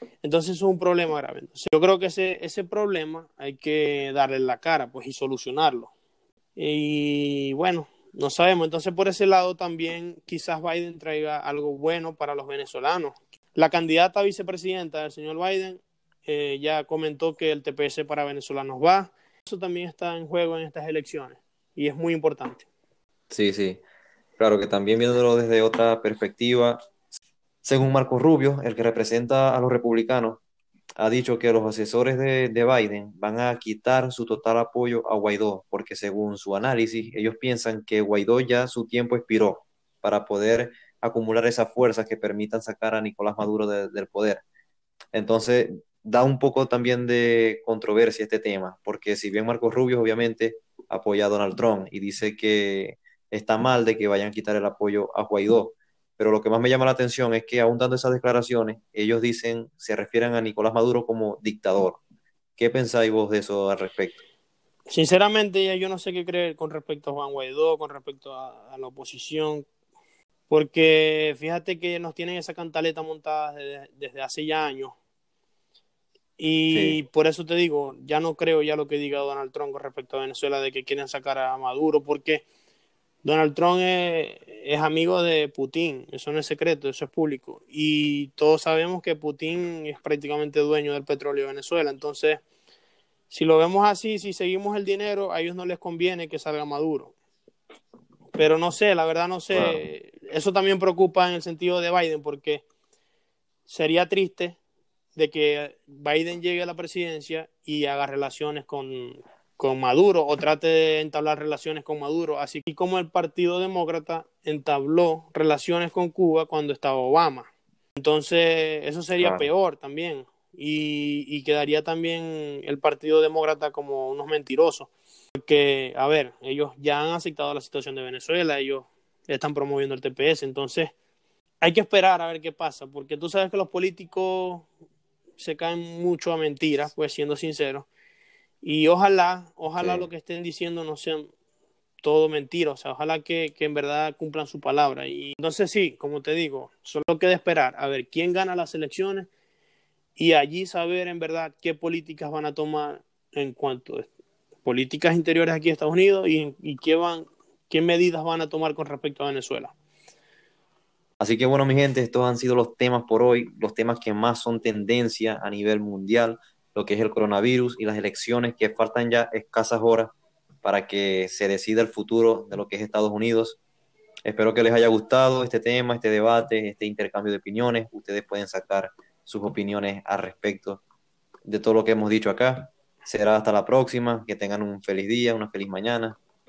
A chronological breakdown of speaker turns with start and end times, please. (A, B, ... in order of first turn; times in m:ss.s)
0:00.2-0:05.9 A
0:06.6-0:22.6 A
0:23.3-0:23.8 B
0:24.4-0:26.8 B
0:27.6-0:30.4 B
0:31.0-0:44.4 B
0:45.1-1:02.0 B
1:02.6-1:04.2 B
1:04.9-1:09.6 A
1:10.5-1:14.9 A
1:16.4-1:22.4 A
1:16.7-1:17.0 B
1:23.2-1:32.4 A
1:33.3-1:37.1 A
1:38.4-1:42.6 A
1:39.5-1:39.8 B
1:43.6-1:44.6 A
1:45.2-2:10.9 A
1:59.2-1:59.5 B
2:11.6-2:14.7 A
2:15.4-2:17.9 A
2:18.6-2:21.3 A
2:19.8-2:20.1 B
2:22.0-2:29.3 A
2:30.2-2:34.1 A
2:34.6-2:39.7 A
2:41.2-2:53.6 B
2:54.2-3:00.8 B
3:01.4-3:06.2 B